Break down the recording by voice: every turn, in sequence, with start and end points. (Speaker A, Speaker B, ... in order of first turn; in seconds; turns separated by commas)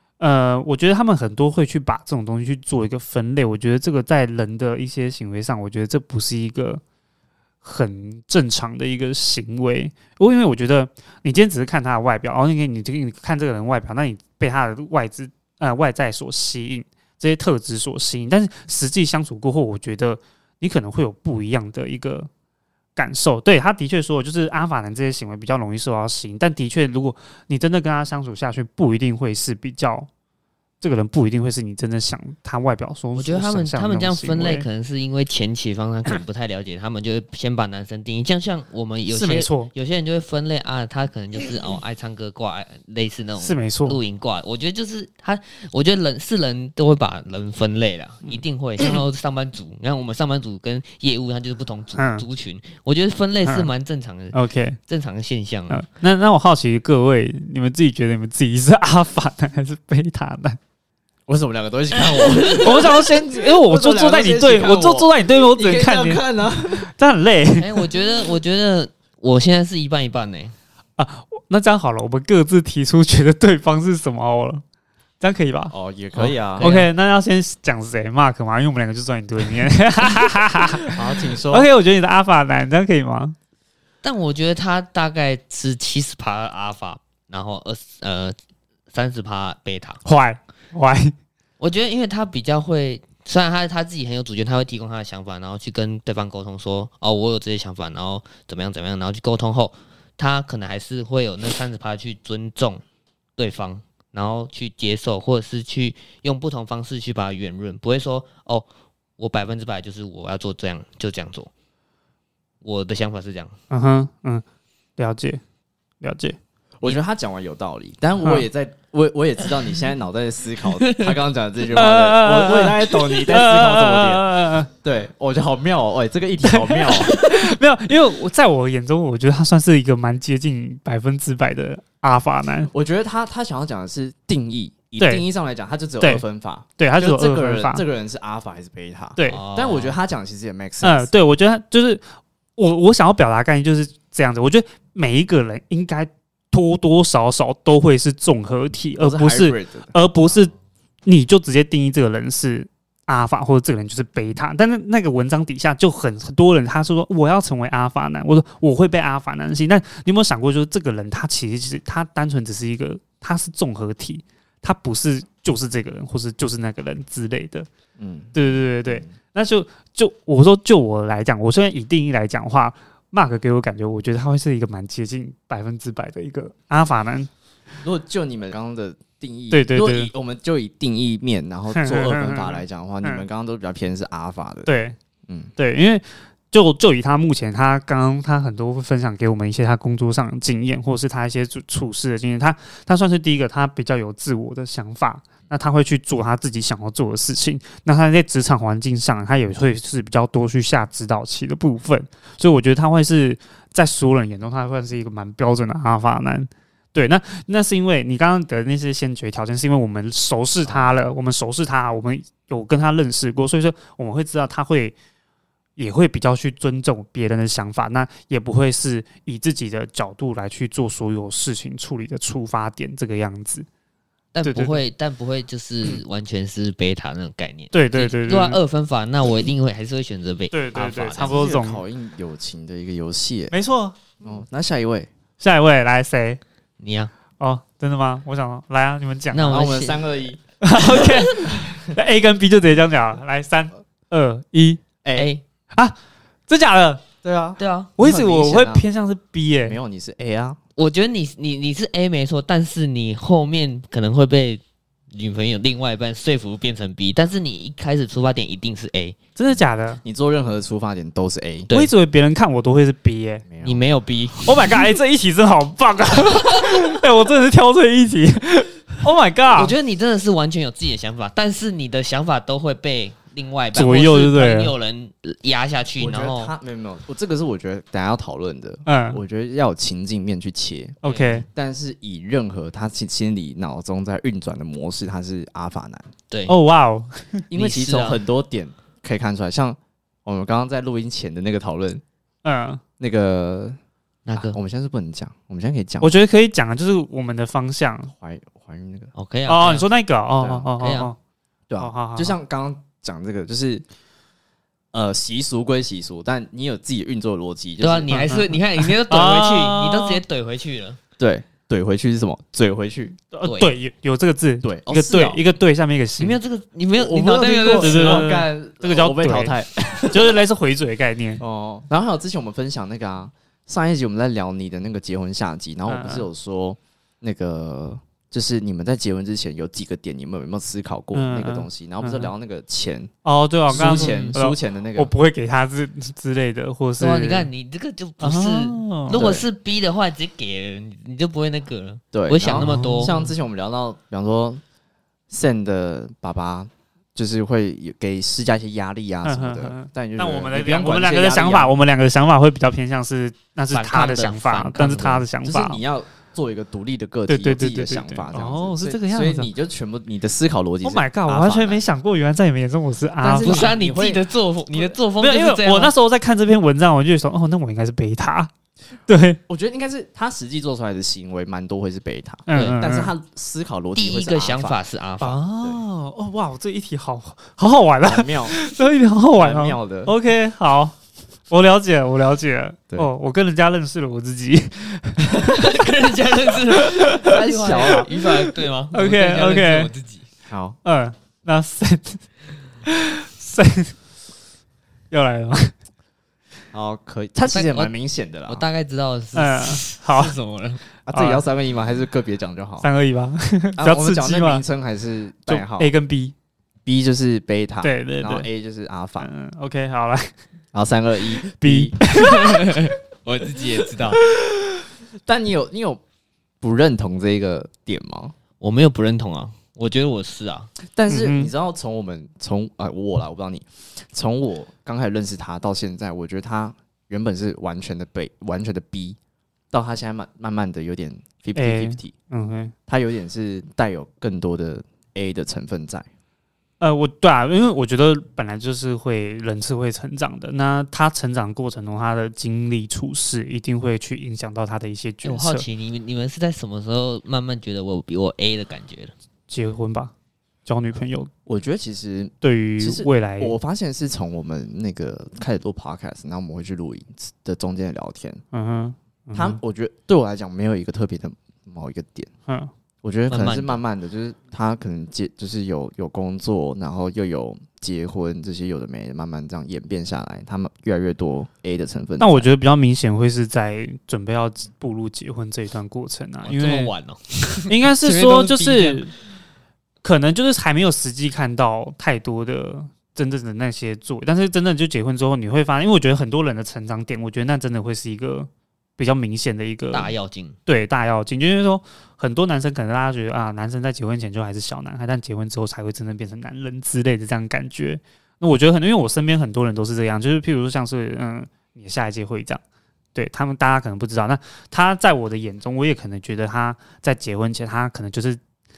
Speaker A: 0.2-6.8, Speaker A: 7.6-22.3, Speaker A: 22.9-30.1, Speaker A: 30.8-34.6, Speaker B: 33.1-54.4, Speaker A: 39.1-39.7, Speaker A: 43.4-44.0, Speaker A: 51.9-52.2, Speaker A: 54.3-54.8, Speaker B: 54.9-55.8, Speaker A: 55.7-60.6, Speaker C: 61.3-66.9, Speaker B: 62.0-62.6, Speaker A: 62.5-66.2, Speaker A: 66.8-67.9, Speaker B: 67.6-70.5, Speaker A: 71.0-74.6, Speaker A: 75.2-75.7, Speaker C: 75.7-76.7, Speaker B: 76.2-76.9, Speaker A: 76.6-83.3, Speaker C: 80.9-81.7, Speaker B: 84.0-88.3, Speaker B: 88.9-90.0, Speaker A: 90.0-91.1, Speaker B: 91.6-102.8, Speaker B: 103.4-108.7, Speaker B: 109.2-111.5, Speaker B: 112.6-113.5, Speaker A: 113.7-114.4, Speaker A: 115.0-115.4, Speaker A: 116.0-116.4, Speaker C: 116.8-127.1, Speaker B: 120.6-121.1, Speaker A: 121.7-124.7, Speaker A: 126.5-132.7, Speaker C: 132.7-141.1, Speaker A: 135.0-135.2, Speaker A: 136.8-137.8, Speaker A: 139.2-139.4, Speaker B: 139.3-140.0, Speaker A: 140.8-142.0, Speaker A: 142.6-150.5, Speaker C: 149.0-149.9, Speaker A: 151.1-167.7, Speaker C: 168.0-169.1, Speaker A: 168.3-177.3, Speaker C: 177.8-184.7, Speaker A: 179.5-180.1, Speaker A: 181.7-183.2, Speaker A: 184.7-184.9, Speaker C: 185.3-185.5, Speaker A: 185.6-214.9, Speaker C: 210.6-211.0, Speaker A: 215.8-223.7, Speaker B: 224.3-231.3, Speaker A: 224.4-224.8, Speaker A: 227.7-228.6, Speaker A: 230.5-231.8, Speaker C: 231.2-233.5, Speaker A: 233.5-234.0, Speaker C: 234.2-235.1, Speaker A: 235.4-236.4, Speaker B: 236.8-237.1, Speaker A: 237.4-239.7, Speaker B: 239.3-240.1, Speaker C: 239.4-240.4, Speaker A: 240.6-244.8, Speaker C: 245.0-245.3, Speaker B: 245.2-245.4, Speaker A: 246.5-247.0, Speaker C: 247.2-248.8, Speaker B: 247.6-247.9, Speaker A: 248.0-249.8, Speaker C: 249.7-250.6, Speaker B: 250.8-259.1, Speaker A: 259.4-260.0, Speaker C: 260.0-261.7, Speaker A: 261.7-263.4, Speaker C: 263.4-263.8, Speaker B: 263.6-264.8, Speaker A: 264.4-269.8, Speaker B: 269.5-276.5, Speaker A: 273.7-274.7, Speaker C: 276.0-286.1, Speaker A: 278.9-279.2, Speaker A: 281.0-281.4, Speaker B: 281.0-281.4, Speaker B: 286.3-286.5, Speaker A: 286.5-287.4, Speaker C: 287.5-292.0, Speaker B: 287.5-288.2, Speaker A: 292.4-292.8, Speaker C: 293.0-293.8, Speaker B: 294.2-294.6, Speaker C: 294.4-296.1, Speaker A: 296.0-298.1, Speaker C: 298.1-299.1, Speaker B: 299.1-299.9, Speaker A: 299.5-301.1, Speaker C: 300.4-300.7, Speaker B: 300.8-301.1, Speaker C: 301.7-303.8, Speaker A: 301.8-302.4, Speaker C: 304.9-308.5, Speaker B: 307.8-311.0, Speaker A: 308.1-310.2, Speaker C: 311.2-313.2, Speaker A: 313.3-316.4, Speaker B: 313.4-313.7, Speaker C: 314.6-315.4, Speaker B: 316.2-318.3, Speaker C: 317.0-320.4, Speaker A: 317.7-321.4, Speaker C: 321.4-333.1, Speaker A: 325.9-326.3, Speaker A: 331.1-332.3, Speaker A: 333.2-337.5, Speaker C: 333.7-335.1, Speaker B: 333.7-334.3, Speaker B: 337.0-343.2, Speaker A: 338.2-339.2, Speaker C: 339.1-339.5, Speaker C: 342.1-344.6, Speaker A: 342.5-343.3, Speaker C: 345.3-351.7, Speaker A: 349.2-355.8, Speaker B: 353.7-355.2, Speaker C: 355.4-361.8, Speaker A: 357.3-359.5, Speaker A: 360.8-363.7, Speaker C: 363.2-364.3, Speaker B: 363.4-365.9, Speaker A: 365.2-368.5, Speaker A: 369.1-369.4, Speaker C: 369.5-374.8, Speaker A: 372.5-373.1, Speaker B: 372.5-372.8, Speaker B: 373.9-375.4, Speaker A: 375.2-380.9, Speaker C: 378.0-378.6, Speaker C: 379.4-380.1, Speaker A: 381.5-385.8, Speaker B: 385.3-390.2, Speaker A: 386.7-389.9, Speaker C: 387.2-388.1, Speaker C: 390.5-390.8, Speaker A: 390.8-392.2, Speaker A: 392.9-393.9, Speaker A: 395.1-395.7, Speaker C: 396.7-398.6, Speaker B: 397.5-397.9, Speaker B: 398.5-400.8, Speaker A: 399.3-400.3, Speaker C: 401.1-402.9, Speaker A: 401.1-401.4, Speaker A: 402.8-404.6, Speaker C: 403.8-405.9, Speaker A: 405.5-406.3, Speaker C: 406.8-409.3, Speaker A: 407.8-408.5, Speaker A: 409.2-410.3, Speaker C: 410.7-412.0, Speaker A: 411.4-412.9, Speaker B: 412.2-414.2, Speaker C: 415.2-416.0, Speaker C: 416.6-418.3, Speaker B: 418.6-420.7, Speaker C: 420.9-429.2, Speaker A: 421.1-421.5, Speaker C: 429.7-432.1, Speaker A: 431.6-432.7, Speaker C: 432.9-436.1, Speaker A: 436.8-445.6, Speaker B: 445.2-449.1, Speaker A: 449.5-450.1, Speaker A: 450.6-451.3, Speaker C: 451.4-458.4, Speaker A: 452.4-453.6, Speaker A: 458.5-459.6, Speaker C: 459.3-462.3, Speaker C: 463.0-472.5, Speaker B: 463.3-463.8, Speaker A: 472.2-476.9, Speaker B: 476.4-479.1, Speaker A: 477.7-479.1, Speaker A: 480.0-490.1, Speaker B: 489.9-490.6, Speaker A: 490.6-502.6, Speaker A: 503.1-508.4